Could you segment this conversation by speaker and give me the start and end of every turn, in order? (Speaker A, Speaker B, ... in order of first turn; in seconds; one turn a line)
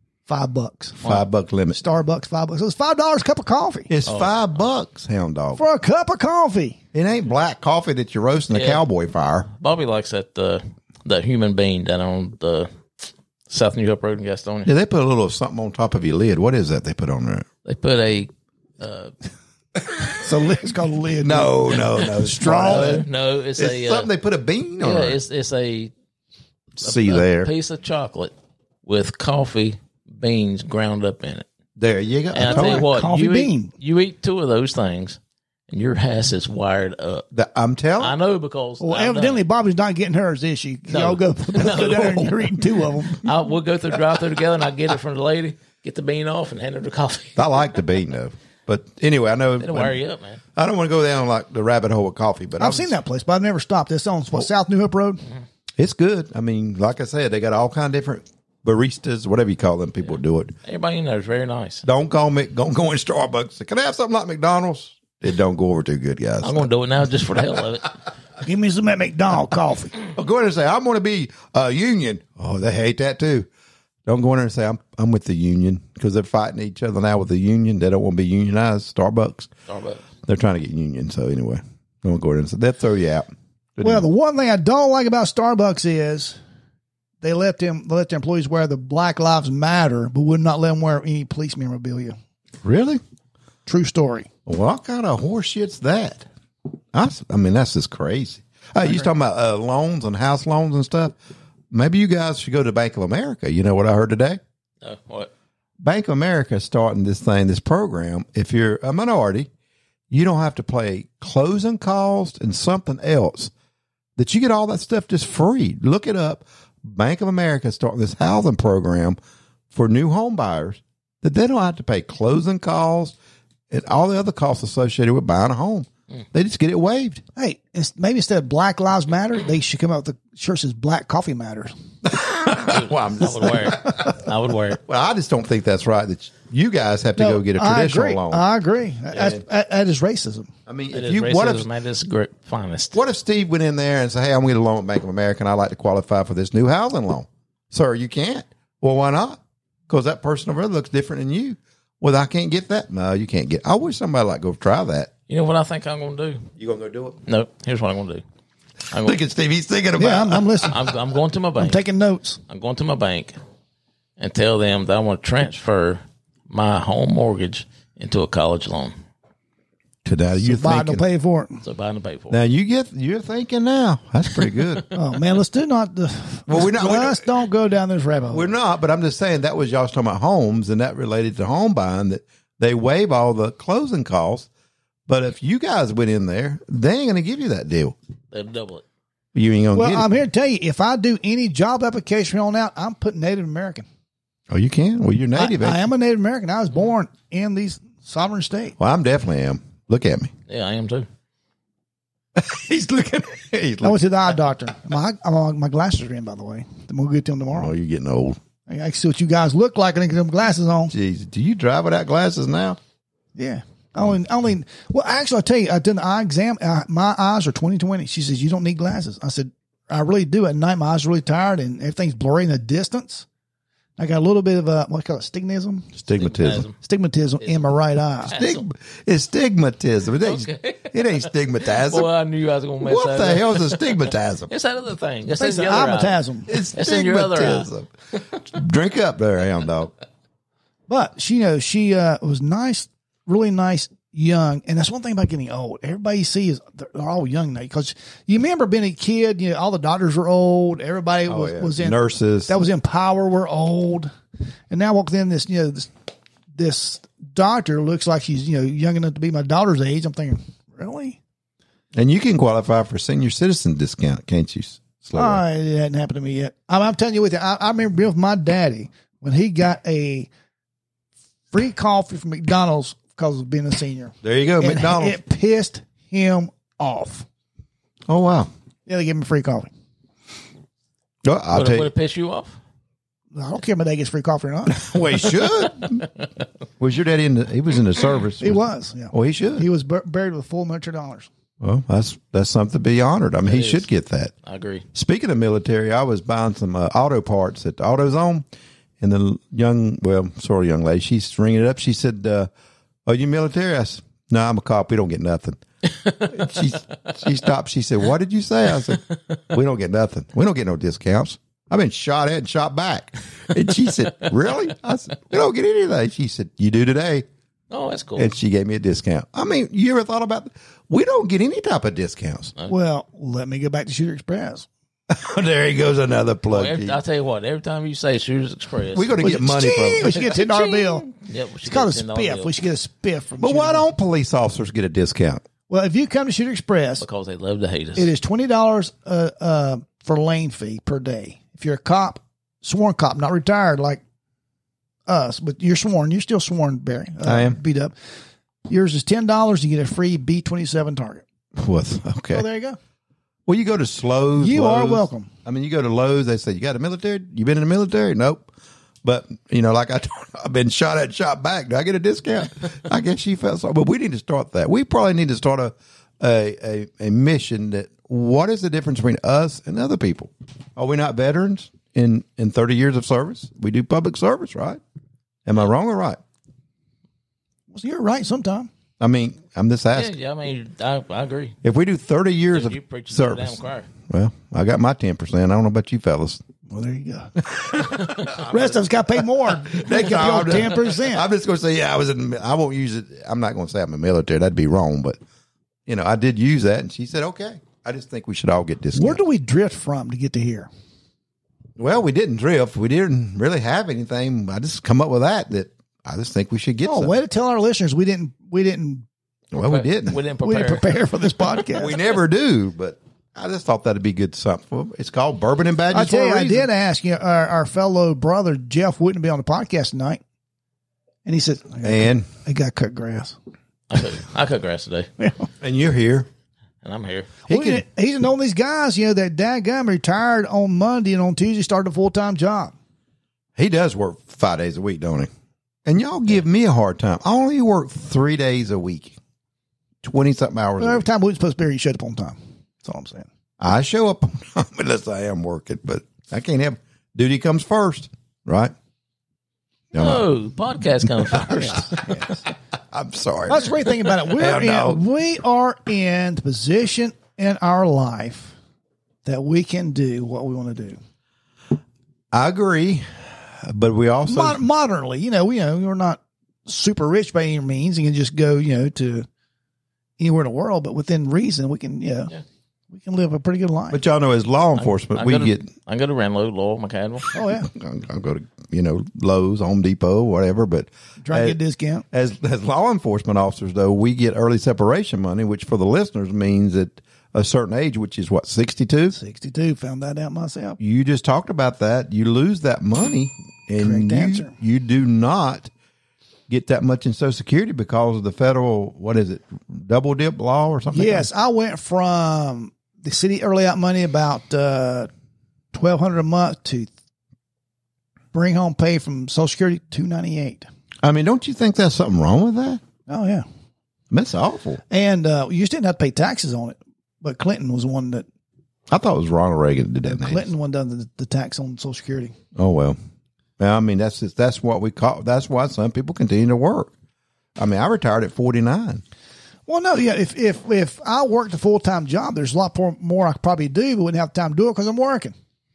Speaker A: 0.3-1.0
Speaker B: 1.0-1.8
Speaker A: 1.7-3.9
Speaker B: 3.9-5.6
Speaker C: 4.0-4.3
Speaker A: 5.6-6.8
Speaker B: 6.9-9.5
Speaker C: 8.5-8.8
Speaker C: 9.5-12.7
Speaker C: 13.5-14.7
Speaker B: 14.6-17.4
Speaker C: 17.6-19.1
Speaker A: 20.2-23.0
Speaker B: 21.2-23.0
Speaker C: 22.4-24.1
Speaker B: 23.6-25.2
Speaker C: 24.8-25.9
Speaker B: 26.8-27.5
Speaker C: 26.8-28.3
Speaker C: 28.8-31.5
Speaker B: 31.8-32.9
Speaker C: 32.3-37.2
Speaker A: 32.4-33.7
Speaker B: 37.3-38.1
Speaker C: 38.0-39.4
Speaker A: 38.8-43.2
Speaker C: 40.9-42.5
Speaker C: 43.1-47.6
Speaker B: 47.4-50.0
Speaker C: 49.6-50.4
Speaker B: 50.5-52.9
Speaker A: 52.6-55.2
Speaker B: 55.8-60.5
Speaker C: 60.6-61.8
Speaker B: 61.8-66.7
Speaker C: 66.4-68.0
Speaker A: 68.4-70.0
Speaker B: 70.1-73.5
Speaker B: 74.0-79.5
Speaker C: 79.7-80.0
Speaker B: 80.2-84.1
Speaker A: 83.8-86.4
Speaker A: 87.2-92.2
Speaker B: 92.6-93.0
Speaker A: 93.7-94.3
Speaker B: 94.5-96.2
Speaker B: 96.9-101.2
Speaker B: 101.7-104.4
Speaker C: 104.8-105.3
Speaker B: 105.8-109.5
Speaker B: 110.1-113.5
Speaker B: 114.2-119.2
Speaker B: 119.7-123.2
Speaker B: 123.7-127.2
Speaker A: 127.3-131.7
Speaker B: 132.0-134.2
Speaker C: 132.5-134.8
Speaker B: 134.8-138.4
Speaker A: 137.2-140.5
Speaker B: 139.1-139.4
Speaker B: 140.7-141.7
Speaker C: 140.9-143.0
Speaker B: 142.9-155.1
Speaker C: 155.3-156.5
Speaker B: 156.6-157.2
Speaker C: 157.2-158.2
Speaker C: 158.9-159.2
Speaker B: 159.0-160.7
Speaker A: 160.0-160.8
Speaker C: 160.7-161.8
Speaker A: 161.6-162.4
Speaker C: 162.5-163.3
Speaker C: 164.2-168.9
Speaker B: 170.0-171.0
Speaker A: 170.4-171.6
Speaker C: 171.6-172.4
Speaker B: 172.3-174.8
Speaker A: 174.9-178.5
Speaker B: 176.5-177.3
Speaker B: 178.3-184.5
Speaker B: 185.1-187.9
Speaker C: 188.3-188.8
Speaker B: 189.3-190.1
Speaker A: 189.7-193.8
Speaker B: 194.5-195.8
Speaker A: 195.3-198.8
Speaker B: 198.8-200.3
Speaker C: 200.5-201.1
Speaker B: 202.3-204.0
Speaker A: 203.8-207.7
Speaker B: 207.5-208.4
Speaker A: 208.7-210.9
Speaker B: 210.9-212.8
Speaker A: 213.3-223.2
Speaker A: 224.0-225.9
Speaker B: 225.9-226.7
Speaker C: 226.1-226.8
Speaker A: 226.8-228.4
Speaker C: 227.4-227.7
Speaker C: 228.3-228.6
Speaker B: 228.3-232.1
Speaker C: 230.2-236.2
Speaker B: 232.8-234.5
Speaker A: 235.3-236.5
Speaker B: 236.5-237.9
Speaker C: 236.7-237.7
Speaker B: 238.4-239.9
Speaker A: 240.9-254.1
Speaker B: 251.3-252.6
Speaker A: 254.7-255.9
Speaker A: 256.5-261.2
Speaker B: 261.9-265.4
Speaker A: 265.1-270.3
Speaker A: 271.5-277.2
Speaker B: 274.2-275.2
Speaker B: 278.1-278.5
Speaker A: 278.9-279.7
Speaker B: 281.2-281.9
Speaker C: 281.5-282.6
Speaker A: 283.3-284.9
Speaker B: 284.7-286.1
Speaker B: 286.8-289.7
Speaker A: 288.4-291.3
Speaker B: 291.6-294.3
Speaker C: 293.4-293.9
Speaker C: 294.4-294.8
Speaker B: 294.9-298.4
Speaker B: 299.0-302.5
Speaker B: 303.1-305.6
Speaker B: 306.2-317.2
Speaker C: 317.7-318.3
Speaker B: 318.2-322.5
Speaker A: 322.7-324.7
Speaker B: 325.1-327.0
Speaker C: 326.5-329.4
Speaker B: 328.9-330.2
Speaker A: 329.2-331.1
Speaker C: 330.0-332.5
Speaker A: 331.6-333.9
Speaker B: 333.4-335.4
Speaker A: 335.7-337.0
Speaker C: 337.0-338.1
Speaker A: 338.0-344.0
Speaker A: 345.1-347.9
Speaker B: 347.2-347.6
Speaker A: 348.7-351.2
Speaker B: 351.5-352.4
Speaker A: 352.3-352.8
Speaker B: 353.4-358.5
Speaker A: 354.4-355.3
Speaker B: 359.0-374.8
Speaker B: 375.4-376.2
Speaker A: 377.7-378.7
Speaker B: 379.0-380.1
Speaker C: 379.9-381.6
Speaker B: 381.6-386.4
Speaker C: 382.5-383.9
Speaker A: 386.7-391.2
Speaker B: 387.4-395.2
Speaker C: 388.0-388.3
Speaker B: 395.9-399.2
Speaker A: 398.9-400.7
Speaker B: 401.8-407.1
Speaker A: 406.8-409.0
Speaker B: 409.5-410.2
Speaker C: 409.6-410.9
Speaker A: 410.4-412.0
Speaker B: 411.7-416.7
Speaker A: 415.9-420.2
Speaker A: 421.2-423.4
Speaker B: 421.8-422.3
Speaker C: 423.9-425.1
Speaker A: 425.2-425.5
Speaker B: 425.6-426.3
Speaker C: 426.8-427.3
Speaker B: 427.5-427.8
Speaker A: 427.5-432.7
Speaker B: 433.6-435.3
Speaker B: 435.8-439.2
Speaker B: 440.0-441.1
Speaker A: 440.8-443.3
Speaker B: 443.6-448.7
Speaker B: 449.9-450.2
Speaker C: 449.9-452.1
Speaker B: 451.3-452.1
Speaker A: 451.4-452.4
Speaker B: 452.9-455.0
Speaker A: 453.5-458.5
Speaker A: 459.2-461.0
Speaker B: 462.3-463.0
Speaker B: 463.6-464.6
Speaker A: 464.2-469.3
Speaker A: 470.2-472.3
Speaker A: 472.9-474.0
Speaker B: 473.9-475.7
Speaker C: 474.8-477.3
Speaker A: 477.3-477.7
Speaker B: 477.6-481.6
Speaker A: 481.2-482.0
Speaker B: 482.1-489.1
Speaker A: 489.1-490.8
Speaker B: 490.8-495.7
Speaker A: 493.8-494.5
Speaker B: 496.5-501.3
Speaker A: 500.9-505.1
Speaker A: 505.7-506.9
Speaker A: 508.3-510.6
Speaker B: 511.0-512.8
Speaker A: 513.1-513.4
Speaker B: 514.1-514.8
Speaker A: 514.9-518.2
Speaker B: 518.9-520.5
Speaker A: 520.0-522.3
Speaker B: 522.5-523.0
Speaker B: 523.6-526.9
Speaker B: 527.6-529.0
Speaker A: 529.7-535.3